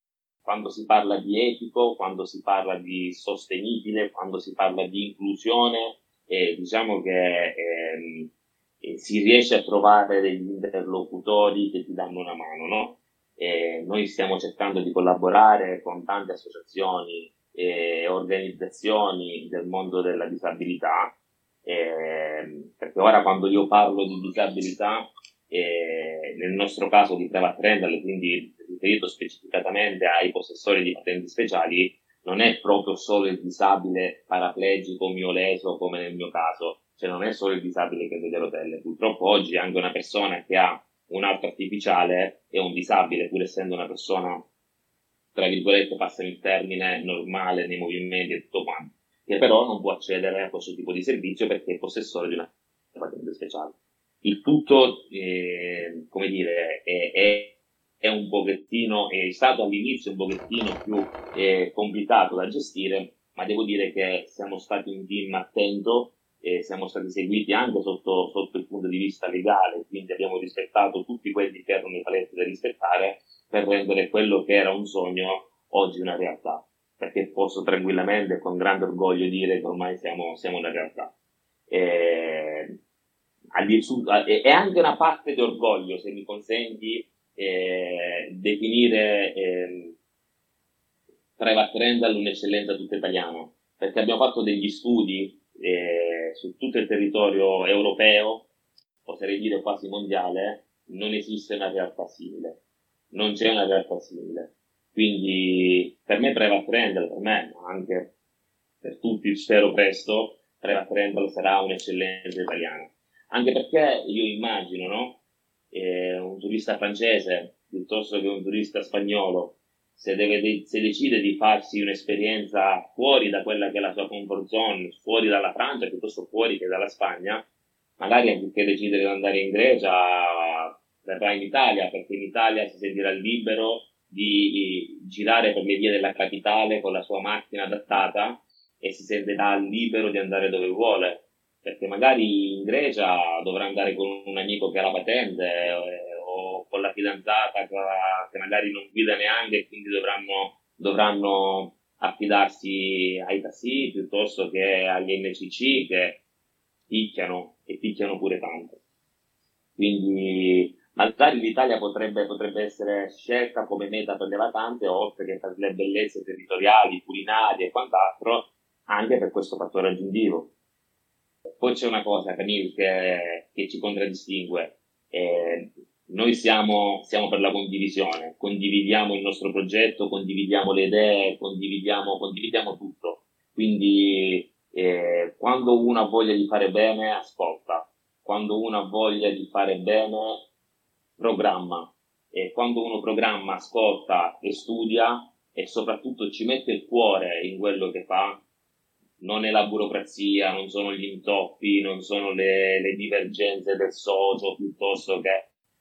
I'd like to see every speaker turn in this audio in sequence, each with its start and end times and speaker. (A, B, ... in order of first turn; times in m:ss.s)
0:00.4-0:08.3 A
0:08.8-0:44.5 A
0:45.4-1:21.1 A
1:21.7-1:22.8 A
1:23.6-1:30.0 A
1:31.4-1:38.5 A
1:39.0-1:42.6 A
1:43.1-1:48.1 A
1:48.8-1:55.2 A
1:55.7-2:07.4 A
2:08.0-2:36.2 A
2:36.9-2:38.8 A
2:39.8-2:50.5 A
2:51.6-3:10.5 A
3:11.2-3:18.4 A
3:19.2-3:25.5 A